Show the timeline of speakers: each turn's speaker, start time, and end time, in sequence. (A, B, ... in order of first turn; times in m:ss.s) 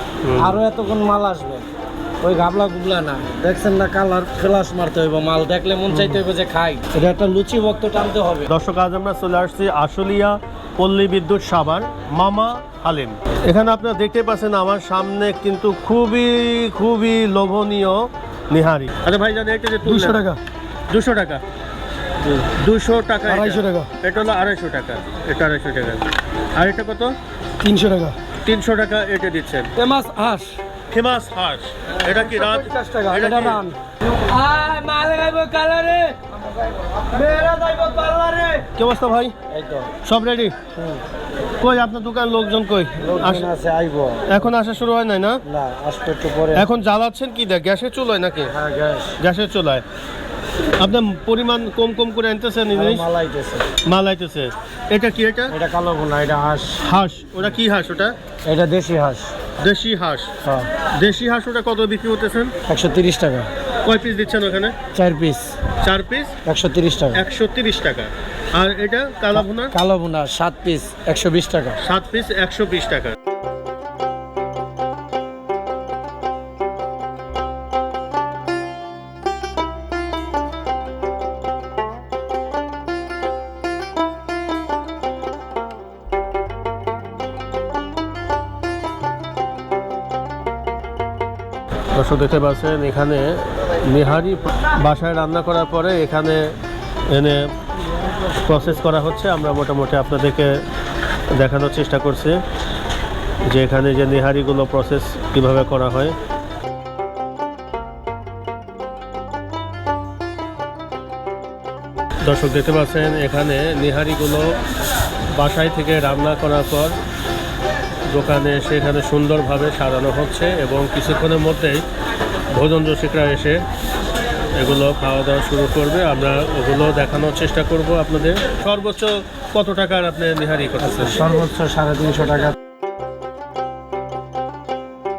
0:00.2-0:00.6 A
0:00.4-0:01.6 B
0:02.2-0:08.5 B
0:05.9-0:06.2 A
0:08.5-0:20.2 A
0:19.8-0:20.4 C
0:20.9-0:21.4 A
0:22.2-0:26.0 A
0:23.3-0:23.9 C
0:26.5-0:27.1 A
0:27.6-0:28.2 C
0:28.4-0:29.7 A
0:29.8-0:30.6 C
0:30.9-0:33.6 A
0:32.0-0:36.3 C
0:36.8-0:38.6 C
0:38.7-0:39.3 A
0:39.5-0:39.9 B
0:40.0-0:40.5 A
0:40.8-0:41.0 B
0:41.6-0:43.5 A
0:43.0-0:44.5 B
0:44.3-0:45.4 A
0:45.4-0:46.7 B
0:46.5-0:48.5 A
0:48.5-0:49.2 B
0:49.2-0:49.8 A
0:50.8-0:53.0 A
0:52.7-0:53.6 B
0:53.8-0:55.5 A
0:55.5-0:56.8 B
0:56.8-0:58.1 A
0:58.4-0:59.3 B
0:59.6-1:00.3 A
1:01.0-1:02.5 A
1:02.7-1:03.5 B
1:03.8-1:04.7 A
1:04.9-1:05.6 B
1:05.8-1:06.3 A
1:06.4-1:07.2 B
1:07.1-1:09.7 A
1:09.3-1:11.8 B
1:11.8-1:13.2 A
1:31.9-1:36.5 A
1:37.1-1:37.5 A
1:38.4-1:40.5 A
1:41.3-1:42.4 A
1:43.5-1:46.1 A
1:52.2-1:54.5 A
1:55.3-1:56.9 A
1:58.1-2:01.8 A
2:02.5-2:03.6 A
2:04.6-2:11.2 A
2:10.8-2:12.5 B